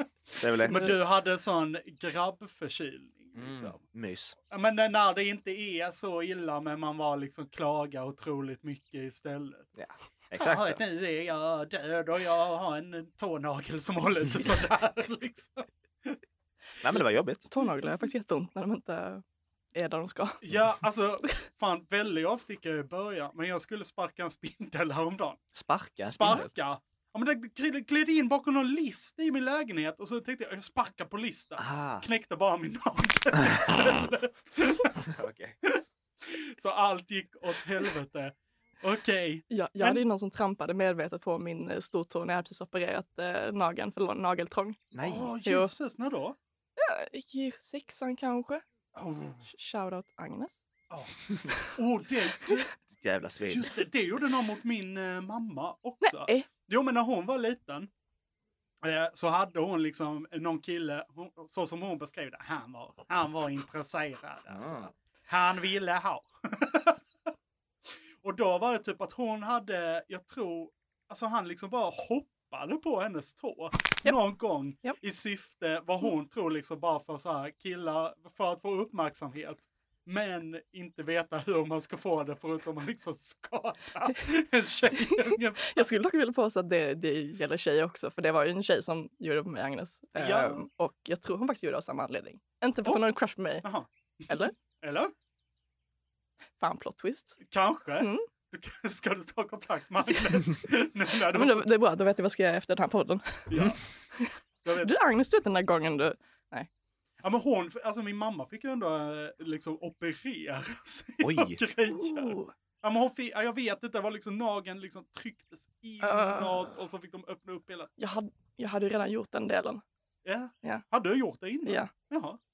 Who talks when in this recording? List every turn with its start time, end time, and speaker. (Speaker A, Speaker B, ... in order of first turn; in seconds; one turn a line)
Speaker A: 0.4-0.8
Speaker B: 0.6-3.8
Speaker C: 0.7-0.9
Speaker A: 3.3-4.3
Speaker B: 4.5-9.7
Speaker A: 9.8-10.8
Speaker B: 10.3-16.2
Speaker A: 16.8-17.5
Speaker C: 17.5-19.2
Speaker C: 19.7-20.4
Speaker B: 20.4-25.4
Speaker A: 25.5-26.5
Speaker B: 26.1-35.0
Speaker A: 31.6-32.0
Speaker A: 35.0-35.6
Speaker B: 35.7-40.0
Speaker C: 39.5-44.8
Speaker A: 44.9-45.3
Speaker B: 45.0-46.4
Speaker C: 45.4-45.7
Speaker C: 46.8-48.6
Speaker B: 48.9-49.4
Speaker C: 49.5-50.6
Speaker B: 50.9-52.7
Speaker A: 52.9-53.7
Speaker B: 53.5-57.9
Speaker C: 56.0-56.5
Speaker B: 58.8-67.0
Speaker A: 64.5-64.9
Speaker B: 68.2-85.9
Speaker C: 84.9-93.7
Speaker B: 90.2-90.7
Speaker B: 93.6-95.1
Speaker C: 96.6-97.4
Speaker B: 97.5-101.7
Speaker C: 98.0-98.2
Speaker C: 101.3-103.5
Speaker B: 103.5-103.8
Speaker C: 104.2-106.7
Speaker B: 104.6-104.9
Speaker B: 107.2-117.9
Speaker A: 111.2-111.6
Speaker C: 111.9-112.5
Speaker C: 116.0-116.7
Speaker C: 118.0-119.8
Speaker B: 120.2-122.4
Speaker C: 121.7-121.9